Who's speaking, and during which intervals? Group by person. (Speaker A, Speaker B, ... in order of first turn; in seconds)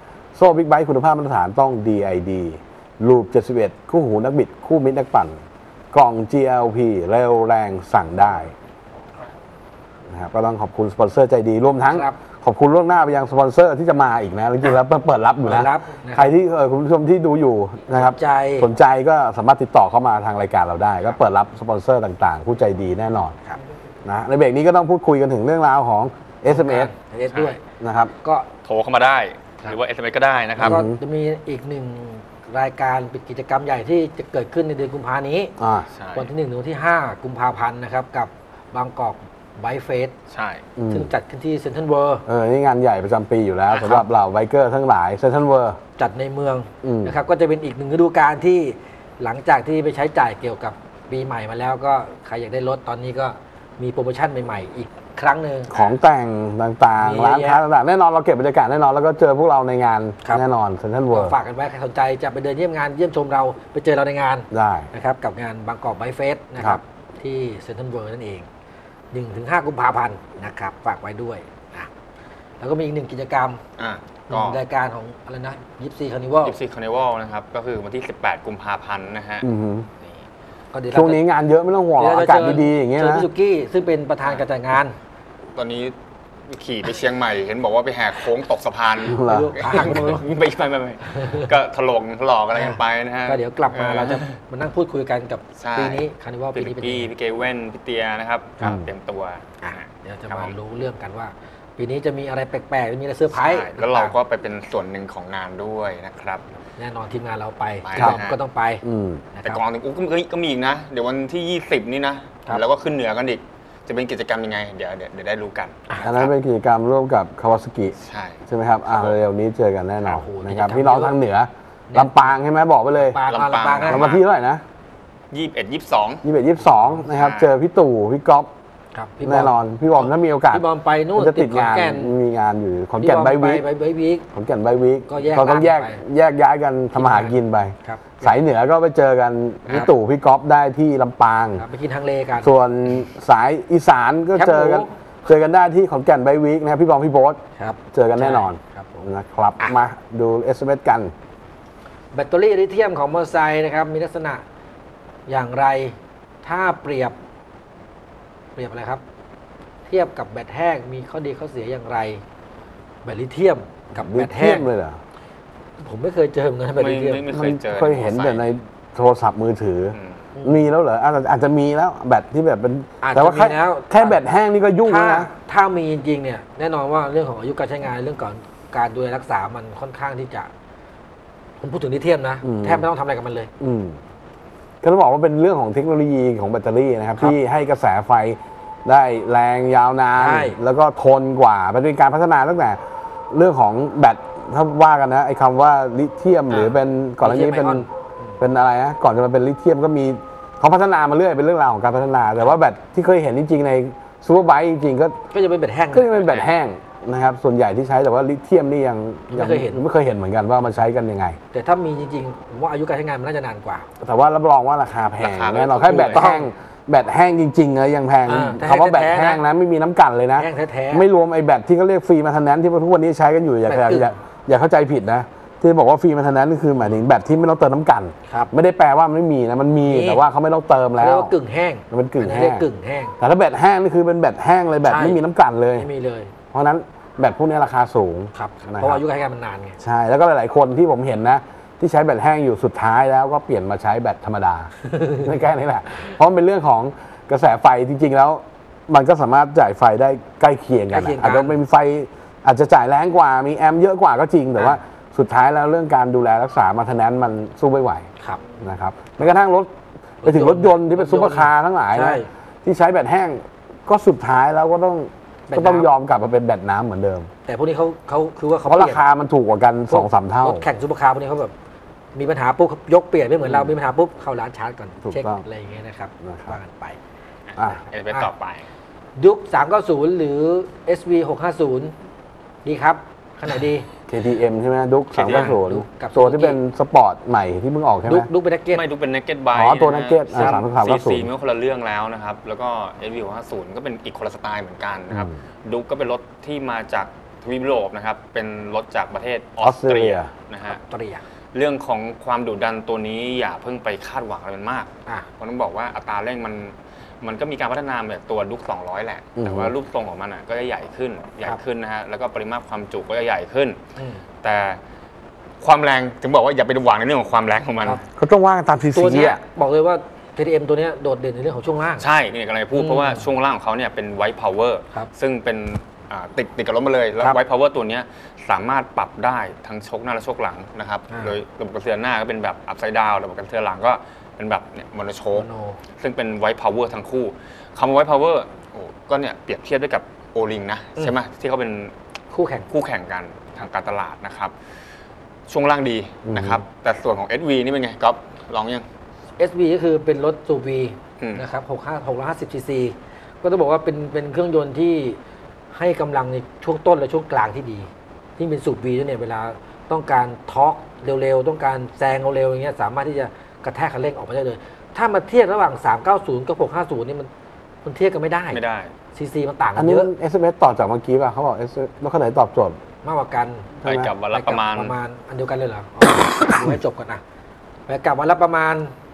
Speaker A: 0.3-5.4, 5.9-8.5, 10.1-23.4, 24.1-26.9, 27.8-28.1, 30.6-31.0, 35.6-35.9, 40.8-41.1, 42.3-45.8, 46.8-47.2, 55.7-61.4, 64.5-64.9, 79.4-79.9, 80.9-83.3, 89.0-89.8, 98.6-98.9, 108.8-109.2, 116.0-123.2, 123.8-124.6, 126.2-128.5, 129.2-133.7, 134.3-141.6, 142.4-147.4, 147.9-151.1, 163.9-165.0, 167.3-175.3, 182.4-182.9, 183.6-184.0, 184.8-197.9, 198.4-205.2, 205.9-211.4, 214.0-231.3, 231.9-232.7, 233.2-235.9, 236.5-239.0, 239.8-258.1, 258.6-267.3, 268.7-270.7, 273.4-273.8, 275.0-275.4, 276.2-276.6, 277.6-277.8, 284.1-288.3, 289.5-291.3, 299.6-300.3, 309.4-309.7, 318.1-319.4, 346.2-346.6, 369.8-372.8, 373.8-374.1
Speaker B: 11.9-12.2, 15.4-16.3, 17.9-18.7, 26.5-27.6, 28.2-28.5, 30.6-35.5, 36.1-40.1, 40.9-42.2, 46.0-55.8, 57.0-57.6, 61.1-68.5, 69.1-71.9, 72.6-73.6, 74.3-76.6, 80.7-81.2, 82.0-85.0, 89.1-90.3, 91.1-91.4, 92.5-97.1, 99.6-104.2, 106.8-109.6, 120.0-121.2, 121.9-122.4, 123.0-124.1, 126.7-127.0, 128.9-132.2, 133.0-134.3, 135.1-136.0, 136.9-138.4, 139.7-139.9, 141.6-142.5, 144.3-144.9, 147.6-149.1, 152.1-154.4, 155.3-157.2, 158.6-159.0, 159.9-162.2, 163.0-164.7, 165.8-167.3, 170.3-170.7, 173.0-174.2, 174.8-180.5, 181.6-183.5, 190.2-190.6, 197.2-198.4, 205.3-206.1, 209.3-209.8, 211.5-213.9, 215.8-216.5, 218.3-219.4, 220.4-221.1, 223.7-224.2, 228.3-228.5, 229.8-230.2, 231.0-233.2, 234.8-235.2, 235.8-236.3, 238.3-239.8, 244.9-245.3, 250.9-251.6, 260.2-262.3, 265.5-265.9, 267.4-269.1, 269.9-271.5, 272.1-277.0, 279.2-281.9, 282.6-283.9, 285.2-286.6, 288.1-288.9, 290.3-290.6, 300.7-301.2, 314.0-314.2, 318.9-322.1, 322.7-323.3, 331.1-331.4, 335.3-335.8, 342.3-342.7, 349.4-355.2, 355.7-367.3, 367.9-368.6, 369.1-370.1, 373.0-377.2, 377.9-378.9
Speaker C: 27.3-27.6, 28.6-30.9, 35.9-36.3, 40.3-40.7, 43.7-44.1, 73.8-74.6, 76.4-79.5, 85.5-86.0, 86.5-94.3, 95.6-100.5, 103.3-106.5, 107.8-108.4, 109.4-116.3, 118.0-119.2, 123.3-124.2, 125.3-126.2, 127.1-127.5, 166.8-168.5, 169.9-170.2, 196.5-196.8, 206.1-206.6, 215.2-216.3, 277.5-278.7, 285.1-285.6, 288.7-300.8, 301.5-313.8, 314.4-314.8, 315.6-318.0, 322.0-335.5, 336.0-341.9, 342.7-344.5, 345.5-348.9, 368.5-368.9, 373.8-374.9